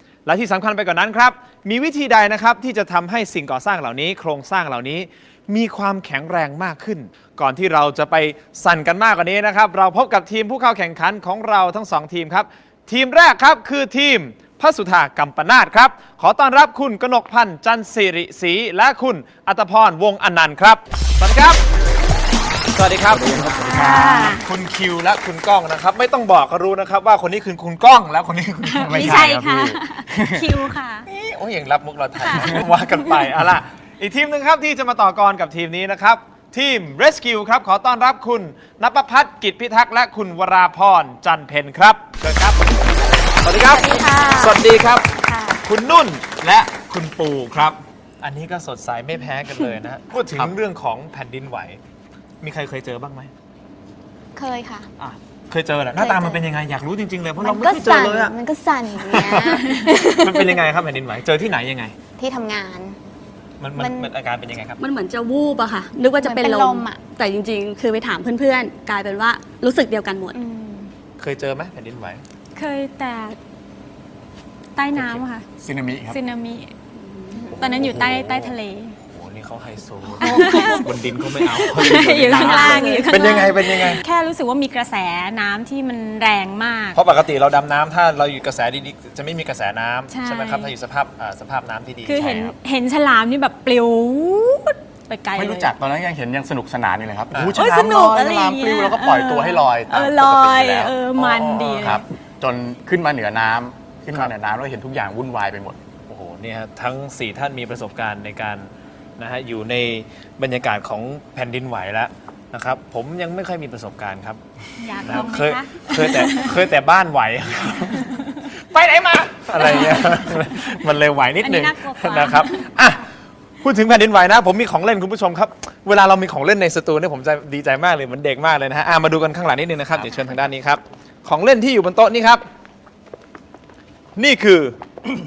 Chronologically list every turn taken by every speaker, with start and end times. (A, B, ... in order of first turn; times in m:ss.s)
0:00.3-0:21.6 A
0:22.8-0:29.3 A
0:23.1-0:24.4 B
0:23.6-0:24.4 C
0:28.8-0:31.1 C
0:28.8-0:30.7 B
0:31.1-0:42.6 A
0:32.2-0:33.1 C
0:43.4-0:45.1 A
0:43.7-0:44.6 D
0:45.2-0:45.6 E
0:45.6-0:51.8 A
0:52.4-0:53.3 A
0:54.4-0:54.9 E
0:55.0-0:58.4 A
0:56.0-0:56.4 E
0:57.4-1:00.1 E
0:59.1-1:01.9 A
1:02.2-1:03.0 E
1:03.6-1:04.8 A
1:03.8-1:04.1 E
1:04.8-1:10.4 D
1:06.2-1:07.0 E
1:10.3-1:10.9 E
1:11.2-1:12.2 A
1:12.6-1:13.4 C
1:14.8-1:15.4 C
1:15.0-1:16.2 B
1:16.1-1:16.7 C
1:17.4-1:19.0 C
1:17.5-1:18.5 B
1:19.1-1:24.0 A
1:20.2-1:20.9 C
1:21.6-1:27.0 C
1:22.4-1:23.1 D
1:27.0-1:32.5 A
1:30.1-1:30.7 C
1:32.1-1:35.7 C
1:35.4-1:45.8 B
1:37.6-1:42.0 C
1:46.1-1:54.4 A
1:54.8-1:56.6 C
1:55.0-1:58.2 A
1:58.0-1:58.3 C
1:58.7-2:03.0 A
1:59.6-2:00.2 C
2:01.4-2:02.7 C
2:03.6-2:12.4 A
2:14.2-2:14.8 A